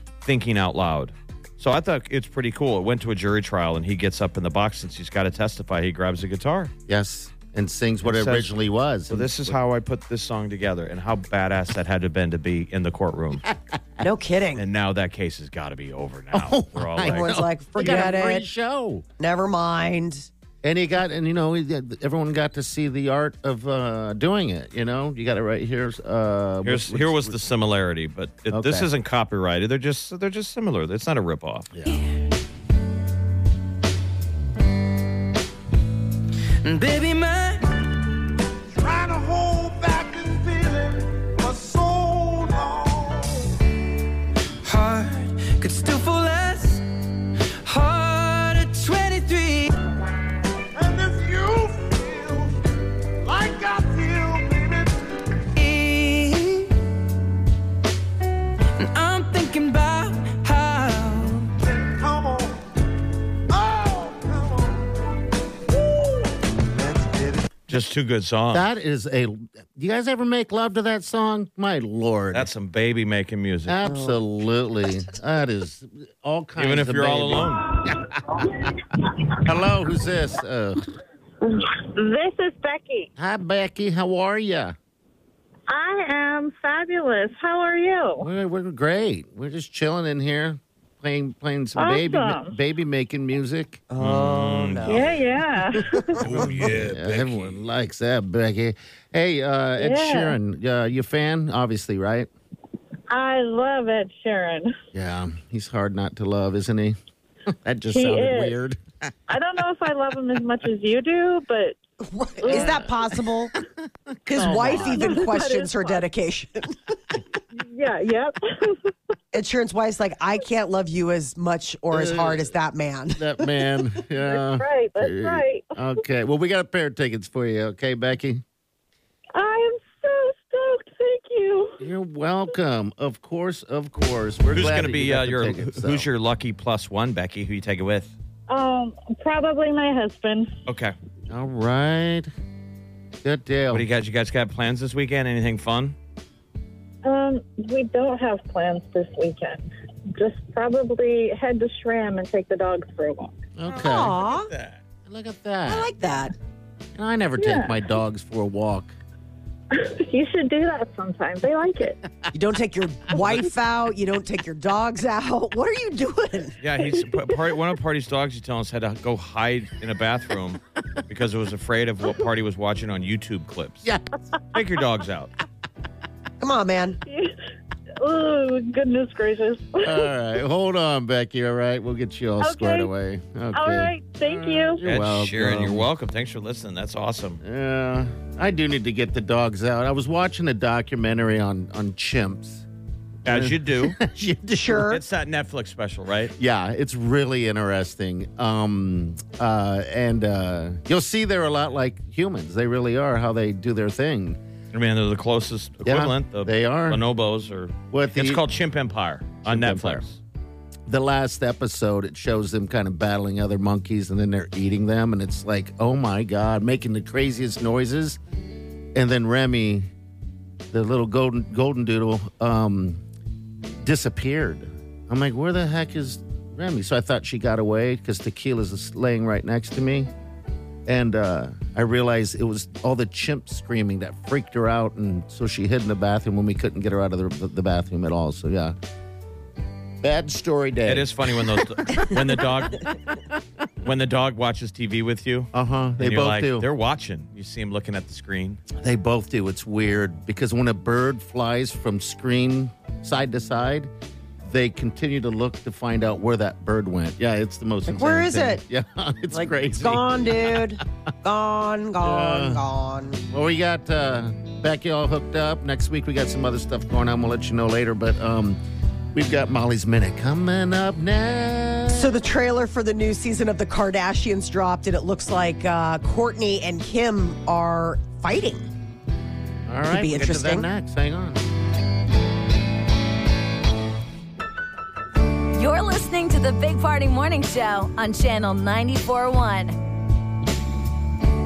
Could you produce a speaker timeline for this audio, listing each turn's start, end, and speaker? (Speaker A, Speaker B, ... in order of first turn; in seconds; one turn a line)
Speaker A: 0.2-6.7
Speaker B: 6.9-9.5
Speaker A: 8.0-8.5
Speaker A: 9.1-13.4
Speaker B: 13.4-13.8
Speaker C: 14.0-14.6
Speaker A: 14.6-17.2
Speaker B: 16.3-19.0
Speaker C: 17.1-18.5
Speaker C: 19.2-20.3
Speaker B: 20.6-27.4
Speaker A: 26.6-31.7
Speaker B: 28.5-28.9
Speaker B: 31.7-32.0
Speaker D: 36.6-37.7
Speaker E: 38.7-43.6
Speaker D: 44.6-46.8
Speaker D: 47.6-49.7
Speaker E: 50.7-52.5
Speaker E: 53.2-55.4
Speaker D: 55.5-56.7
Speaker D: 58.8-61.5
Speaker E: 61.6-62.6
Speaker E: 63.5-67.5
Speaker A: 67.7-68.7
Speaker B: 68.5-72.5
Speaker A: 72.3-73.8
Speaker B: 73.7-78.7
Speaker C: 73.8-74.2
Speaker A: 76.6-77.7
Speaker B: 79.4-80.8
Speaker F: 81.4-83.1
Speaker B: 83.2-84.7
Speaker F: 85.7-88.3
Speaker B: 88.2-93.8
Speaker F: 91.8-92.6
Speaker C: 93.9-95.1
Speaker A: 94.0-95.2
Speaker F: 94.9-96.2
Speaker B: 96.2-102.3
Speaker A: 96.2-97.5
Speaker F: 99.8-100.3
Speaker F: 103.1-104.7
Speaker B: 104.9-107.0
Speaker B: 107.5-109.1
Speaker F: 107.9-108.5
Speaker F: 109.3-111.8
Speaker C: 112.0-113.5
Speaker F: 112.4-112.8
Speaker B: 112.5-112.9
Speaker C: 114.3-116.8
Speaker B: 114.3-115.3
Speaker F: 114.4-116.0
Speaker F: 117.5-118.9
Speaker C: 119.3-123.3
Speaker B: 121.9-122.5
Speaker B: 123.2-128.4
Speaker F: 124.1-126.0
Speaker F: 129.3-131.8
Speaker B: 131.8-136.1
Speaker A: 134.5-138.1
Speaker F: 138.5-140.6
Speaker A: 140.7-140.9
Speaker B: 141.3-142.3
Speaker B: 143.2-143.8
Speaker A: 143.7-145.9
Speaker F: 147.0-153.4
Speaker B: 153.6-154.2
Speaker A: 153.7-154.8
Speaker C: 153.8-154.5
Speaker B: 155.1-155.9
Speaker C: 155.7-156.3
Speaker B: 156.9-158.9
Speaker F: 157.4-157.9
Speaker F: 159.7-162.0
Speaker C: 162.3-166.6
Speaker A: 166.6-173.9
Speaker A: 174.5-175.3
Speaker C: 176.4-177.0
Speaker F: 177.1-177.3
Speaker F: 178.0-180.1
Speaker B: 179.8-185.8
Speaker F: 182.4-182.9
Speaker F: 183.5-184.8
Speaker A: 184.8-187.4
Speaker B: 187.4-192.7
Speaker A: 193.2-194.0
Speaker B: 193.2-194.9
Speaker C: 194.6-195.0
Speaker A: 194.9-196.3
Speaker B: 196.3-204.4
Speaker A: 204.7-210.2
Speaker B: 205.8-207.0
Speaker B: 207.9-208.4
Speaker B: 209.4-210.0
Speaker B: 210.9-218.2
Speaker B: 218.9-219.9
Speaker B: 220.7-223.0
Speaker B: 223.8-230.1
Speaker B: 230.8-238.7
Speaker B: 240.0-241.7
Speaker A: 240.8-242.9
Speaker A: 243.8-248.6
Speaker B: 245.5-246.7
Speaker B: 248.7-253.9
Speaker B: 254.4-260.8
Speaker C: 257.9-258.6
Speaker C: 259.3-263.2
Speaker B: 262.0-262.6
Speaker B: 263.3-268.6
Speaker B: 269.1-272.1
Speaker C: 271.9-278.7
Speaker B: 279.7-281.4
Speaker C: 279.9-280.7
Speaker G: 285.5-289.8